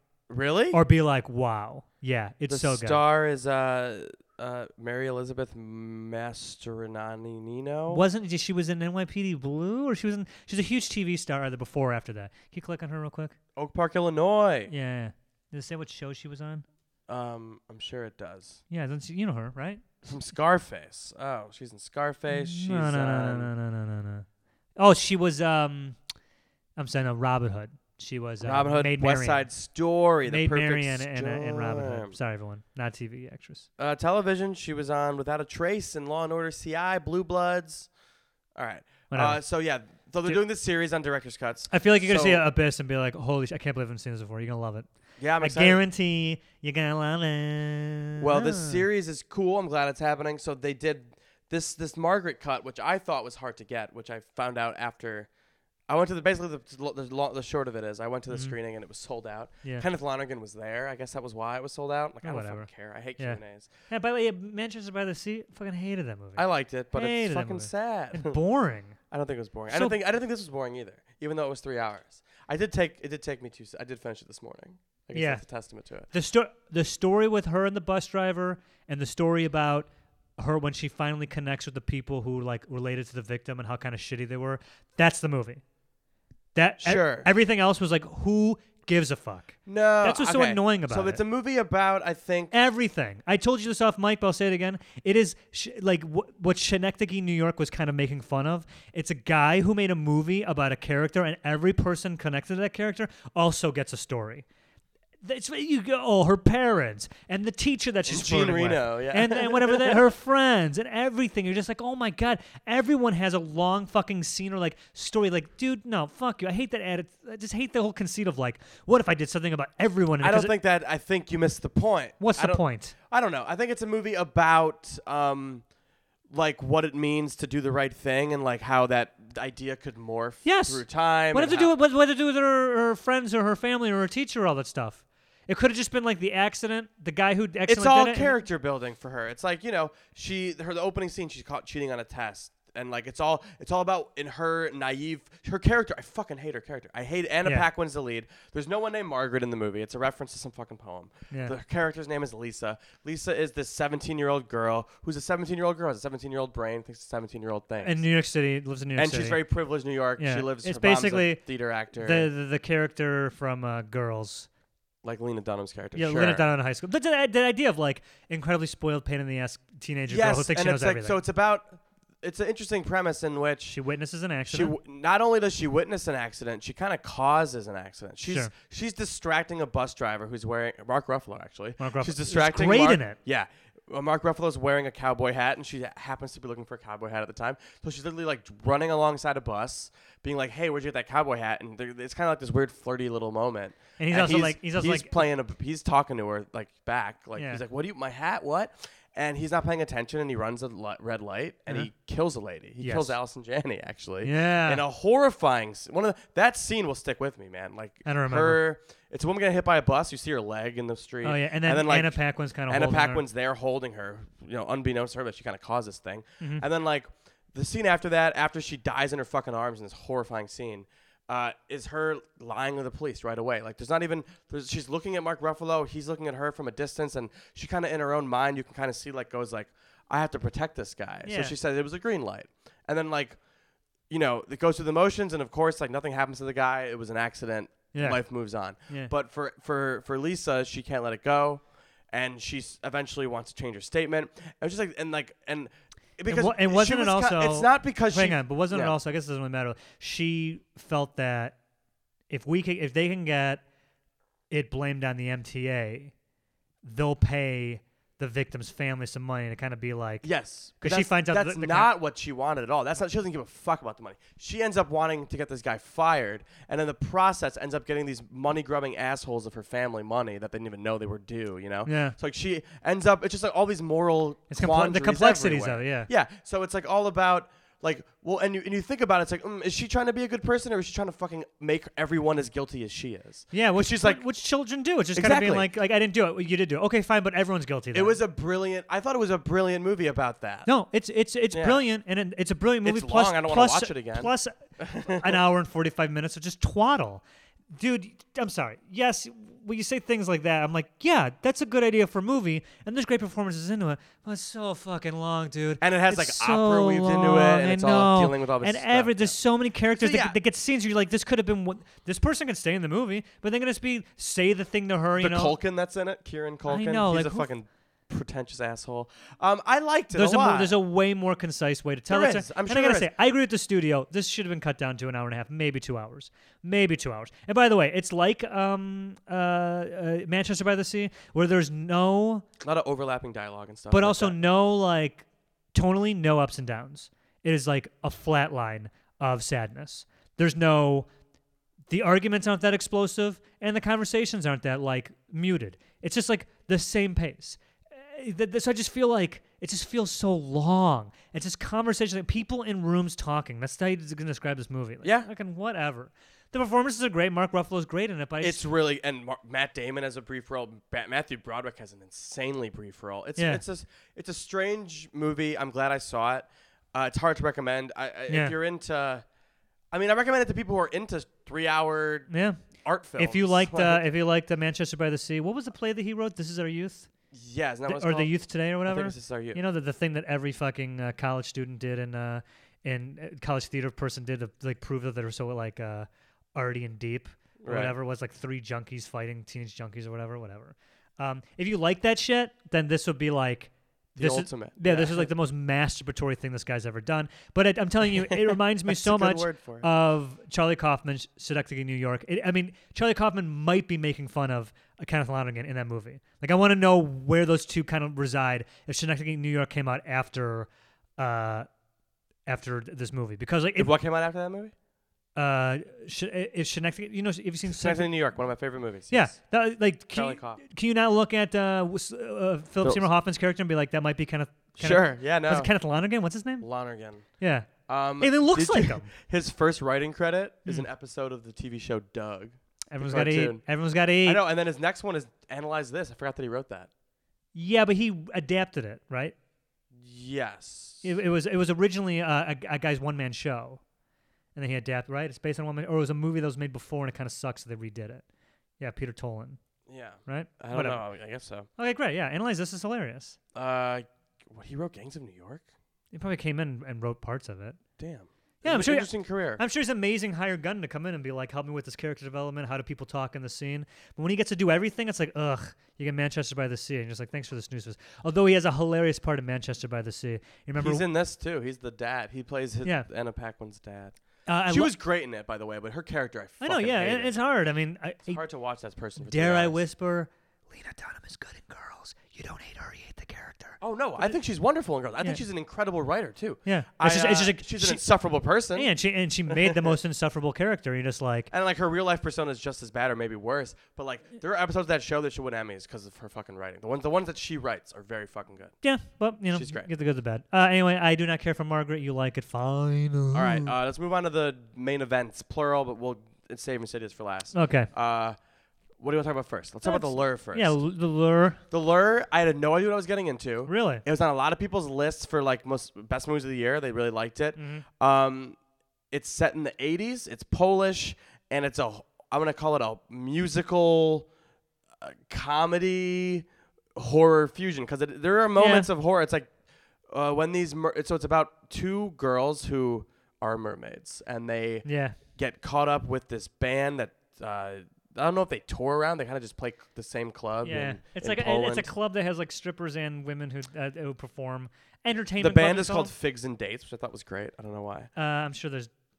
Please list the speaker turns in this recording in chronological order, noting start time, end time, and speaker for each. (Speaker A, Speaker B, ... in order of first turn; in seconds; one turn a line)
Speaker A: 0.3-0.8
Speaker B: 0.7-3.0
Speaker A: 2.5-8.0
Speaker B: 7.9-13.3
Speaker A: 13.6-14.7
Speaker B: 14.7-16.6
Speaker A: 17.1-18.6
Speaker B: 18.7-19.8
Speaker A: 20.0-23.5
Speaker B: 22.3-24.2
Speaker B: 24.8-26.0
Speaker B: 26.8-29.5
Speaker A: 28.4-32.1
Speaker B: 30.2-33.7
Speaker A: 33.8-37.9
Speaker A: 38.5-42.4
Speaker B: 39.1-39.4
Speaker B: 41.7-44.9
Speaker A: 45.2-45.8
Speaker B: 45.4-48.8
Speaker A: 48.2-55.3
Speaker A: 55.9-63.7
Speaker B: 58.3-58.5
Speaker B: 62.2-69.0
Speaker A: 66.3-68.4
Speaker A: 69.1-76.1
Speaker B: 69.7-70.0
Speaker B: 75.1-75.4
Speaker B: 76.1-85.6
Speaker B: 86.5-91.2
Speaker A: 86.8-87.3
Speaker A: 89.7-92.5
Speaker B: 92.5-104.4
Speaker B: 105.2-120.5
Speaker A: 108.1-110.0
Speaker A: 120.2-125.6
Speaker B: 122.2-122.9
Speaker A: 126.3-131.7
Speaker B: 130.4-138.3
Speaker A: 137.7-158.0
Speaker B: 157.8-159.4
Speaker A: 159.0-162.3
Speaker B: 160.2-161.4
Speaker B: 162.0-164.5
Speaker A: 165.0-166.4
Speaker B: 165.9-171.2
Speaker A: 170.1-173.8
Speaker B: 173.7-174.7
Speaker A: 174.5-233.4
Speaker B: 178.2-178.5
Speaker B: 181.8-183.2
Speaker B: 194.0-195.2
Speaker B: 197.3-197.6
Speaker B: 202.8-203.2
Speaker B: 204.2-204.8
Speaker B: 208.0-208.6
Speaker B: 211.2-213.2
Speaker B: 231.2-231.5
Speaker A: 234.1-248.9
Speaker B: 237.9-238.2
Speaker B: 246.3-251.6
Speaker B: 252.3-253.6
Speaker B: 254.5-256.1
Speaker B: 256.8-260.3
Speaker A: 260.2-284.2
Speaker B: 260.8-261.9
Speaker B: 271.9-272.1
Speaker B: 274.5-276.1
Speaker B: 283.5-288.2
Speaker A: 285.1-285.7
Speaker A: 287.9-290.7
Speaker B: 290.6-315.6
Speaker A: 291.5-291.8
Speaker A: 292.8-295.4
Speaker A: 305.8-309.4
Speaker A: 310.0-310.4
Speaker A: 315.2-320.8
Speaker B: 316.7-317.5
Speaker B: 320.1-332.4
Speaker A: 322.1-323.1
Speaker A: 332.6-334.4
Speaker B: 333.9-341.1
Speaker B: 341.9-358.6
Speaker A: 355.0-355.3
Speaker A: 358.4-369.2
Speaker B: 363.4-363.6
Speaker B: 368.3-368.5
Speaker A: 369.9-374.0
Speaker B: 372.3-372.6
Speaker B: 373.1-377.1
Speaker A: 377.3-378.3
Speaker B: 377.9-411.7
Speaker A: 378.8-379.6
Speaker A: 387.6-387.9
Speaker A: 394.2-395.3
Speaker A: 398.1-399.9
Speaker B: 412.4-413.9
Speaker A: 413.8-414.7
Speaker B: 415.4-418.1
Speaker A: 417.7-419.3
Speaker B: 419.1-426.6
Speaker A: 420.1-420.6
Speaker A: 422.8-423.1
Speaker A: 424.8-425.7
Speaker A: 426.6-427.3
Speaker B: 427.4-429.1
Speaker A: 427.9-433.6
Speaker B: 432.9-434.4
Speaker A: 434.2-436.9
Speaker B: 437.5-439.3
Speaker A: 439.9-441.1
Speaker B: 441.0-443.8
Speaker B: 444.5-448.2
Speaker B: 448.8-449.6
Speaker A: 449.9-451.7
Speaker B: 450.2-451.0
Speaker B: 451.8-453.4
Speaker A: 453.5-455.6
Speaker B: 456.1-457.8
Speaker A: 458.0-459.6
Speaker B: 458.6-471.1
Speaker A: 470.8-474.2
Speaker B: 474.5-474.9
Speaker A: 474.7-477.3
Speaker B: 476.6-478.4
Speaker A: 478.3-479.8
Speaker B: 479.2-484.4
Speaker A: 483.8-488.9
Speaker B: 486.6-488.0
Speaker B: 488.7-491.5
Speaker A: 489.5-489.9
Speaker A: 491.5-498.8
Speaker B: 498.8-503.7
Speaker A: 499.5-499.9
Speaker A: 503.3-508.4
Speaker B: 507.5-507.9
Speaker A: 509.0-510.8
Speaker B: 509.8-511.6
Speaker A: 511.7-518.6
Speaker B: 513.7-514.0
Speaker B: 517.6-517.8
Speaker A: 519.1-524.3
Speaker A: 525.0-529.5
Speaker B: 528.5-528.9
Speaker A: 530.1-541.9
Speaker B: 534.8-535.2
Speaker B: 540.6-546.1
Speaker A: 545.4-548.1
Speaker B: 548.1-548.9